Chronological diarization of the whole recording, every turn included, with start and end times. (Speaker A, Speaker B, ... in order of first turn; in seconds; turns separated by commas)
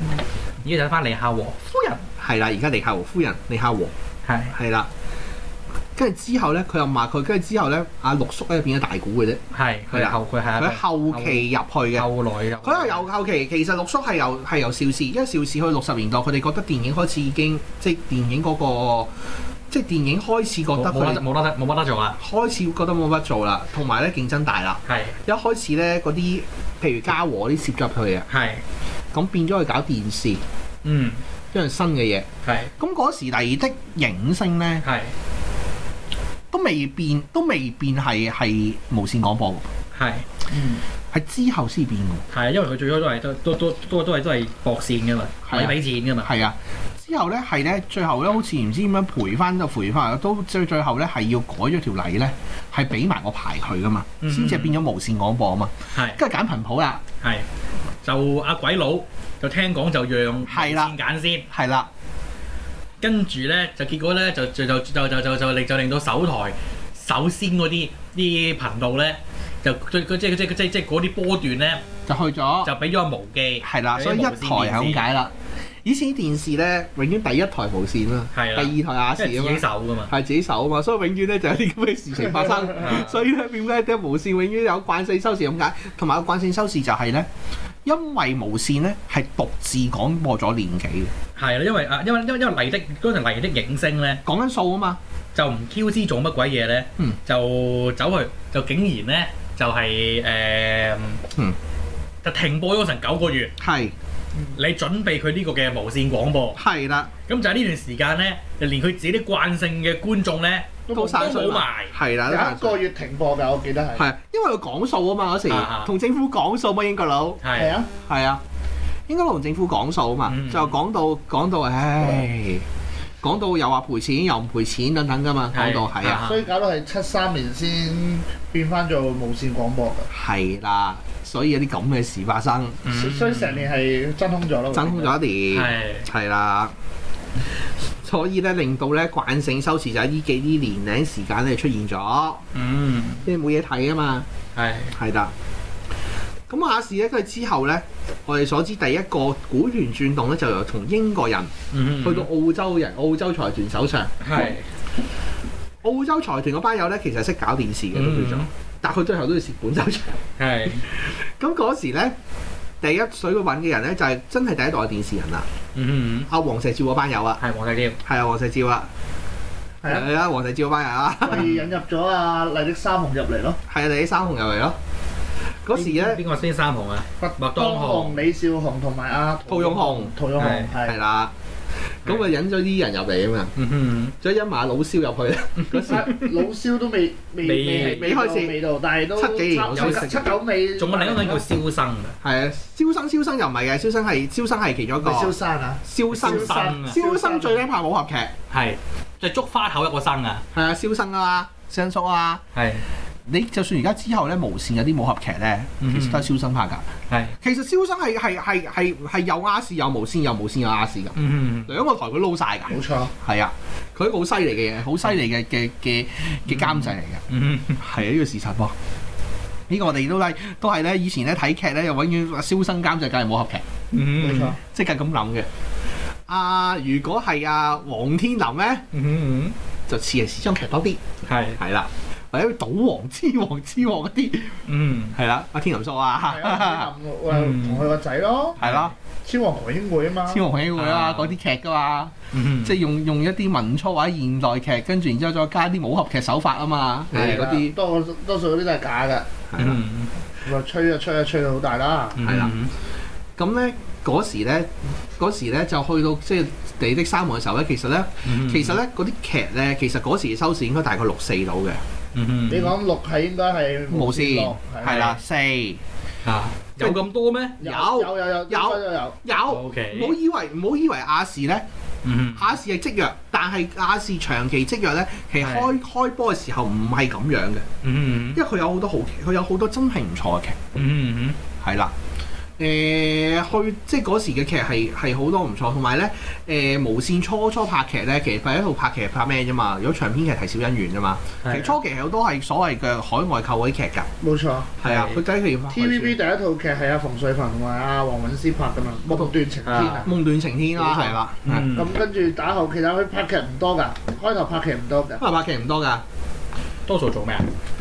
Speaker A: 0.6-1.7, Speaker B: 1.7-3.9, Speaker A: 4.2-4.5, Speaker B: 4.5-4.9, Speaker B: 6.0-12.1, Speaker A: 9.5-13.0, Speaker B: 12.6-21.2, Speaker A: 20.7-22.2, Speaker B: 22.2-28.3, Speaker A: 24.9-25.1, Speaker A: 28.3-28.6, Speaker B: 29.1-30.4, Speaker A: 30.8-31.2, Speaker B: 31.5-32.3, Speaker A: 32.4-32.7, Speaker B: 32.8-34.8, Speaker A: 34.8-35.1, Speaker B: 36.5-39.7, Speaker A: 39.9-40.3, Speaker C: 40.5-40.8, Speaker B: 41.1-42.2, Speaker A: 42.3-46.3, Speaker B: 45.5-57.0, Speaker A: 54.2-54.7, Speaker A: 55.9-56.2, Speaker A: 57.2-57.5, Speaker A: 58.0-61.5, Speaker B: 60.5-61.0, Speaker B: 61.5-61.9, Speaker A: 63.0-71.8, Speaker B: 72.1-72.7, Speaker A: 72.6-75.0, Speaker B: 73.6-75.3, Speaker B: 75.8-87.3, Speaker A: 78.3-80.1, Speaker A: 82.8-83.2, Speaker B: 87.8-91.1, Speaker A: 91.3-94.2, Speaker B: 94.2-95.0, Speaker A: 95.3-101.2, Speaker A: 102.2-103.5, Speaker B: 103.6-103.9, Speaker A: 104.5-106.6, Speaker B: 106.5-107.1, Speaker A: 107.3-111.9, Speaker C: 110.9-111.3, Speaker B: 110.9-112.8, Speaker C: 112.3-114.0, Speaker B: 114.0-117.4, Speaker A: 115.5-115.9, Speaker A: 117.4-117.8, Speaker C: 117.5-117.9, Speaker B: 118.0-118.4, Speaker B: 119.1-122.7, Speaker A: 120.3-120.7, Speaker B: 123.2-126.2, Speaker A: 125.5-126.5, Speaker C: 126.2-130.1, Speaker B: 130.1-132.8, Speaker A: 132.8-133.7, Speaker C: 132.9-135.1, Speaker B: 134.7-136.7, Speaker A: 135.5-136.1, Speaker B: 137.9-142.4, Speaker A: 142.5-143.2, Speaker B: 143.2-144.3, Speaker A: 144.5-144.9, Speaker B: 144.9-145.3, Speaker B: 146.5-154.5, Speaker A: 151.7-152.3, Speaker A: 154.2-154.6, Speaker B: 155.8-160.2, Speaker A: 157.9-158.5, Speaker A: 160.4-160.8, Speaker B: 160.8-162.2, Speaker B: 162.8-165.5, Speaker A: 165.7-166.3, Speaker B: 166.3-167.4, Speaker A: 167.4-168.0, Speaker B: 168.0-168.9, Speaker B: 169.8-171.5, Speaker C: 171.2-173.6, Speaker B: 173.7-174.8, Speaker B: 175.6-176.2, Speaker A: 175.7-178.2, Speaker C: 177.2-181.0, Speaker B: 179.5-180.1, Speaker A: 180.4-180.7, Speaker B: 180.8-181.3, Speaker B: 182.0-183.5, Speaker A: 183.6-184.2, Speaker B: 184.2-186.1, Speaker A: 185.6-186.3, Speaker C: 185.8-191.5, Speaker A: 187.4-188.1, Speaker B: 187.8-188.6, Speaker B: 189.1-190.3, Speaker A: 189.7-190.1, Speaker A: 190.8-192.2, Speaker B: 192.2-195.3, Speaker C: 195.0-197.6, Speaker B: 195.8-198.3, Speaker A: 196.1-197.0, Speaker A: 198.5-200.4, Speaker B: 200.5-202.4, Speaker A: 202.5-202.8, Speaker B: 203.2-206.8, Speaker A: 205.8-206.3, Speaker A: 207.1-207.3, Speaker B: 207.4-211.2, Speaker A: 211.2-211.8, Speaker B: 211.7-217.2, Speaker C: 212.7-213.1, Speaker A: 216.5-217.8, Speaker B: 217.8-218.7, Speaker B: 219.7-223.6, Speaker A: 223.9-224.6, Speaker C: 224.2-224.6, Speaker B: 224.7-225.5, Speaker B: 226.3-228.8, Speaker A: 228.9-229.6, Speaker B: 229.9-231.0, Speaker A: 231.2-231.6, Speaker B: 231.6-234.6, Speaker A: 234.7-235.1, Speaker B: 235.1-236.9, Speaker C: 236.3-238.6, Speaker A: 237.3-237.9, Speaker A: 238.6-238.9, Speaker B: 238.6-238.9, Speaker C: 239.2-240.4, Speaker B: 240.3-247.7, Speaker A: 240.7-241.3, Speaker A: 242.3-242.8, Speaker C: 247.1-249.3, Speaker B: 249.5-249.8, Speaker A: 249.6-250.1, Speaker C: 250.4-252.2, Speaker A: 252.2-252.7, Speaker B: 252.2-252.5, Speaker B: 253.4-261.8, Speaker A: 258.2-258.8, Speaker A: 262.1-262.7, Speaker C: 262.5-265.1, Speaker B: 263.9-265.8, Speaker A: 264.8-265.2, Speaker A: 266.2-267.6, Speaker B: 267.6-271.6, Speaker C: 267.6-269.2, Speaker A: 269.5-270.2, Speaker A: 272.0-272.5, Speaker B: 272.3-277.7, Speaker A: 275.4-275.7, Speaker A: 277.8-278.4, Speaker B: 278.3-280.7, Speaker A: 280.7-281.4, Speaker B: 281.6-281.9, Speaker B: 282.6-294.1, Speaker A: 291.4-291.7, Speaker C: 294.2-294.7, Speaker B: 294.8-296.2, Speaker A: 294.8-295.2, Speaker C: 295.7-300.1, Speaker B: 299.1-301.7, Speaker A: 299.6-300.1, Speaker C: 300.8-301.1, Speaker A: 301.4-301.9, Speaker C: 301.7-305.3, Speaker B: 305.2-306.0, Speaker A: 306.9-307.5